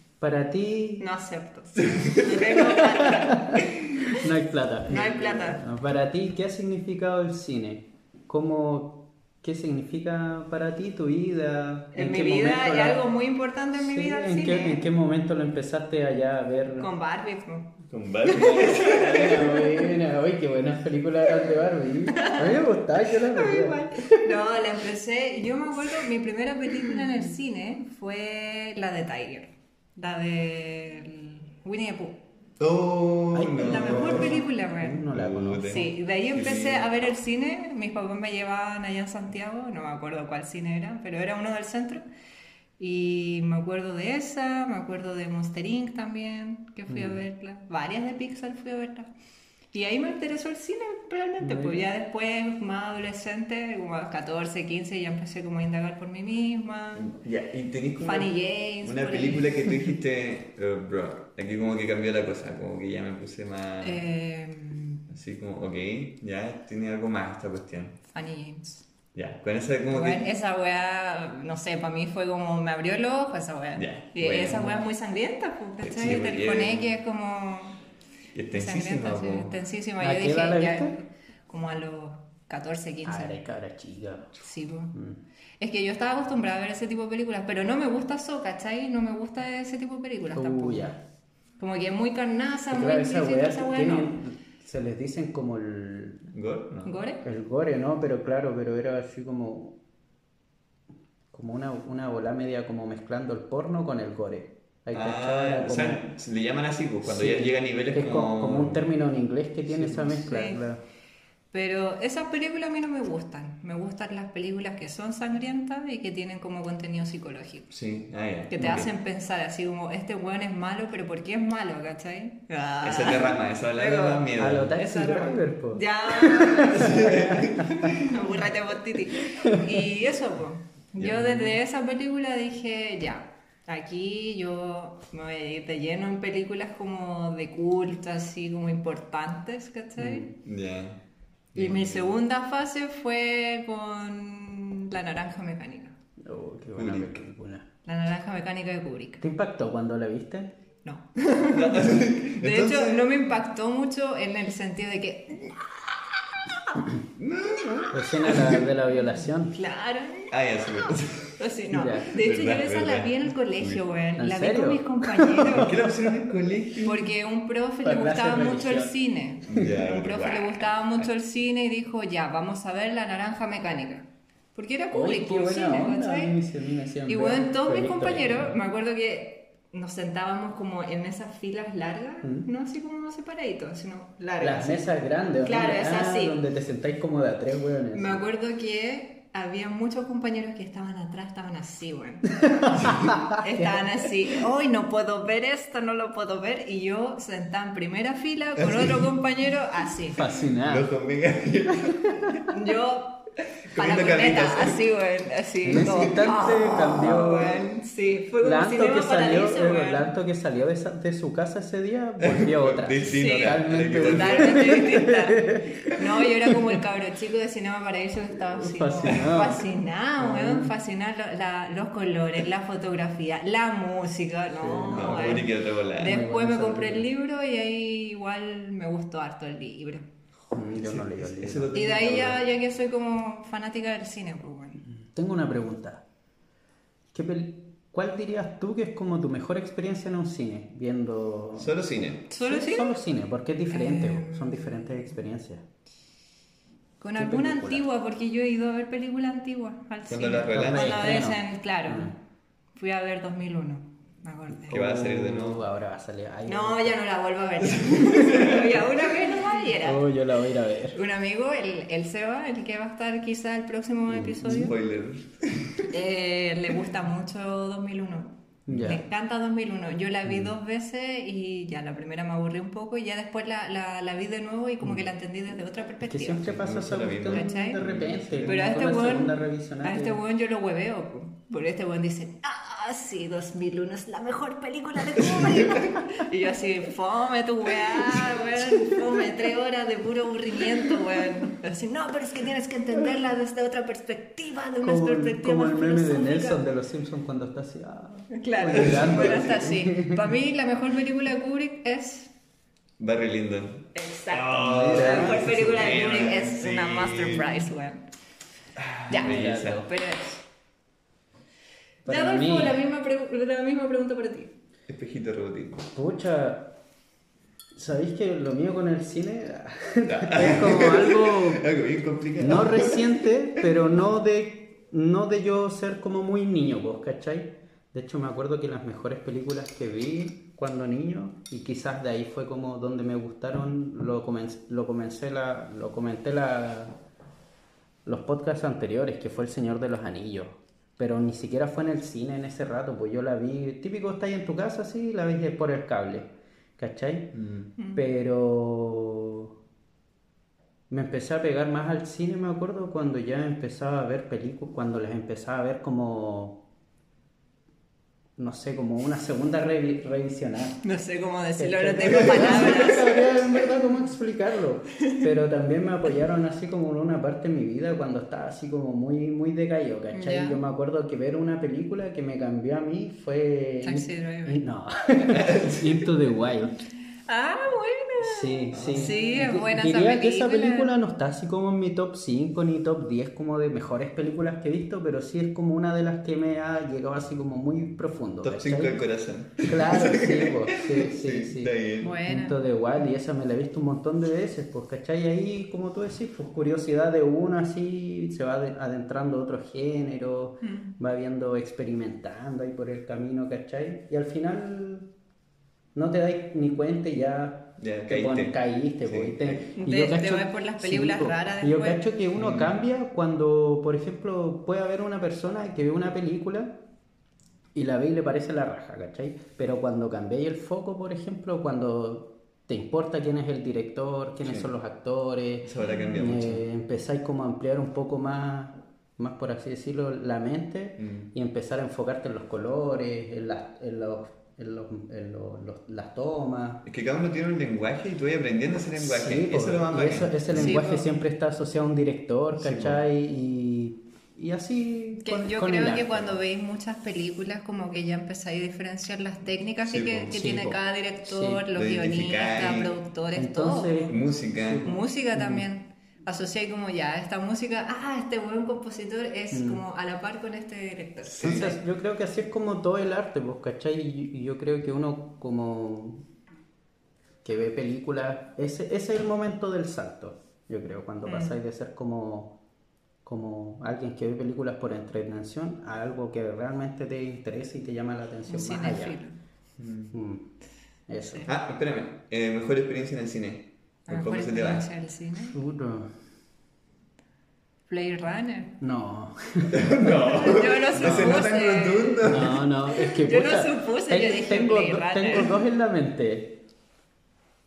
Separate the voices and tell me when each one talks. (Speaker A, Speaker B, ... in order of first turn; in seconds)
Speaker A: 0.2-1.1, 3.0-13.0, 13.7-16.9, 18.3-24.3, 33.3-35.9, 46.9-47.2, 51.4-51.9, 74.5-74.9, 80.0-81.0, 83.0-84.3, 84.9-85.2, 90.3-91.0, 92.7-96.3, 97.2-99.8, 101.3-106.1, 107.0-110.8, 124.4-128.0, 129.3-129.7, 140.0-140.3, 146.2-147.7, 149.2-150.5, 157.9-159.6, 161.7-162.1, 164.2-164.8, 165.5-166.1, 167.8-168.9, 174.9-178.6, 184.4-188.2, 192.5-193.8, 200.1-200.9, 201.8-202.4, 205.7-207.6, 208.4-216.8, 218.6-219.6, 220.2-220.7, 224.5-225.5, 226.0-227.1, 230.5-231.8, 234.9-236.0, 237.1-241.8, 242.4-245.6, 247.2-247.8, 250.5-252.1, 254.6-257.0, 259.8-261.0, 264.1-264.7, 268.7-269.0, 276.0-280.2, 294.8-300.2, 304.6-306.1, 309.1-309.9, 312.1-312.8, 315.9-316.8, 317.8-321.6, 322.4-336.9, 338.1-347.4, 347.9-349.5, 350.9-356.6, 358.4-360.8, 361.6-376.8, 378.2-389.0, 389.6-405.1, 405.9-416.8, 417.8-436.9, 439.0-446.4, 450.3-451.6, 453.4-455.7, 459.5-459.8, 461.4-466.2, 467.4-472.6, 473.2-479.2, 480.1-480.5, 481.1-481.5, 485.4-486.1, 488.8-490.3, 491.0-491.4, 492.2-496.6
Speaker B: 1.0-4.1, 4.9-5.6, 11.9-14.8, 16.8-17.7, 18.2-20.0, 22.1-32.2, 33.6-35.1, 35.6-42.0, 42.8-49.1, 49.7-57.1, 58.0-59.6, 63.8-65.0, 68.1-68.9, 69.9-77.8, 78.5-83.4, 84.4-84.9, 85.6-91.0, 91.6-94.2, 96.8-97.2, 110.2-110.6, 111.5-117.7, 118.5-140.3, 141.6-145.9, 147.8-149.2, 150.8-155.7, 159.5-160.3, 161.4-165.8, 166.8-176.3, 177.1-184.9, 185.4-186.4, 187.9-192.4, 193.3-200.3, 202.4-210.1, 213.1-230.1, 231.7-234.8, 242.3-243.0, 243.7-245.0, 247.0-252.2, 252.8-254.7, 256.5-260.1, 260.9-264.7, 265.9-276.5, 277.3-277.8, 278.4-296.6, 298.3-302.3, 303.9-308.0, 309.1-310.4, 312.1-314.5, 347.8-348.0, 360.8-363.2, 370.1-370.6, 373.8-374.6, 377.3-380.9, 392.0-392.6, 400.6-400.9, 409.8-412.0, 425.8-426.1, 440.5-441.1, 445.3-454.1, 454.8-461.8, 471.3-471.6, 478.5-479.4, 481.2-481.5, 484.1-485.6, 487.9-488.8, 490.1-495.6
Speaker C: 1.8-3.0, 17.9-19.4, 32.6-34.5, 35.1-36.9, 56.9-64.1, 65.1-68.0, 69.1-70.3, 73.8-74.7, 75.8-77.0, 78.3-79.6, 96.3-97.0, 104.9-108.8, 109.7-110.2, 117.7-118.9, 122.8-124.8, 126.6-128.3, 131.0-131.5, 140.4-141.0, 141.6-142.2, 146.8-147.2, 151.4-153.1, 157.2-158.7, 160.3-161.3, 162.2-163.8, 165.3-167.1, 169.5-171.1, 192.8-193.3, 198.6-199.1, 200.5-202.4, 203.7-204.8, 205.7-207.6, 212.2-214.9, 224.9-226.2, 230.8-232.4, 241.6-242.3, 250.1-251.1, 254.7-255.7, 257.6-258.8, 264.4-265.9, 268.7-268.9, 276.4-278.7, 285.2-286.0, 288.1-288.8, 298.7-299.7, 303.0-307.7, 308.8-309.9, 314.9-315.9, 320.0-323.2, 347.3-347.7, 362.1-363.0, 375.3-376.1, 378.7-379.2, 388.4-392.2, 407.8-409.7, 412.4-412.7, 424.4-424.7, 425.6-426.6, 431.0-431.3, 436.9-440.8, 442.6-443.0, 449.9-450.7, 451.7-452.9, 454.1-454.9, 461.2-461.8, 479.8-480.1, 481.4-484.9, 489.7-492.6